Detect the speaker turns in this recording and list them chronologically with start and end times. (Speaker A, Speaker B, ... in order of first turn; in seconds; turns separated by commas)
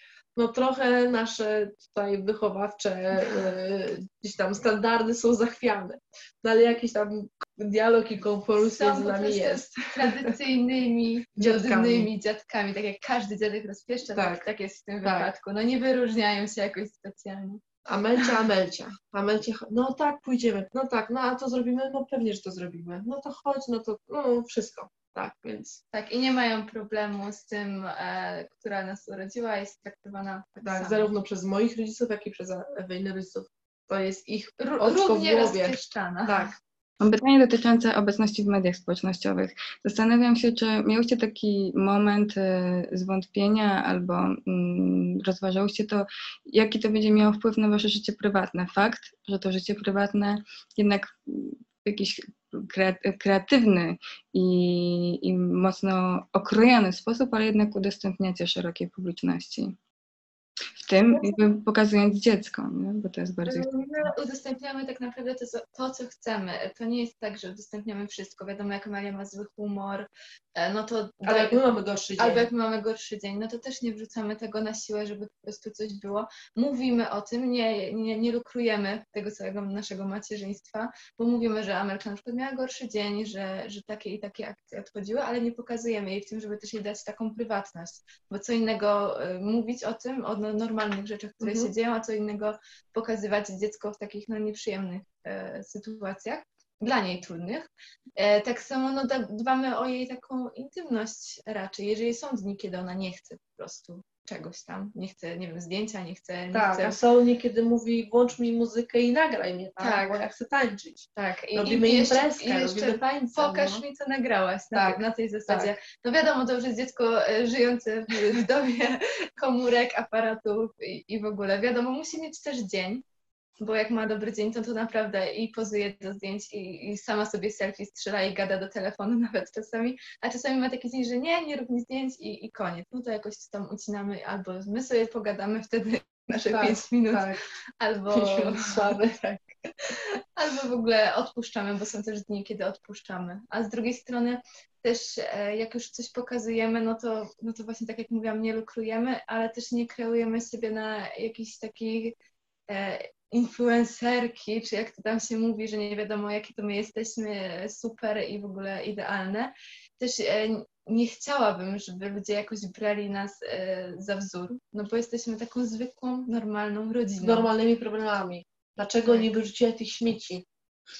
Speaker A: 0.3-10.3, Speaker B: 8.6-17.6, Speaker A: 11.4-12.1, Speaker A: 14.1-14.5, Speaker A: 15.0-15.3, Speaker A: 17.9-25.8, Speaker B: 25.9-31.1, Speaker A: 30.6-36.5, Speaker B: 34.6-36.5, Speaker C: 37.0-59.7, Speaker C: 60.8-63.7, Speaker B: 63.5-71.6, Speaker A: 71.2-72.5, Speaker B: 72.2-107.0, Speaker A: 91.4-91.7, Speaker A: 106.5-113.8, Speaker B: 109.8-110.2, Speaker B: 111.2-123.0, Speaker A: 114.7-115.7, Speaker B: 123.6-138.9, Speaker A: 136.4-137.4, Speaker A: 138.1-139.4, Speaker B: 139.9-152.1, Speaker B: 152.7-167.5, Speaker A: 167.2-170.4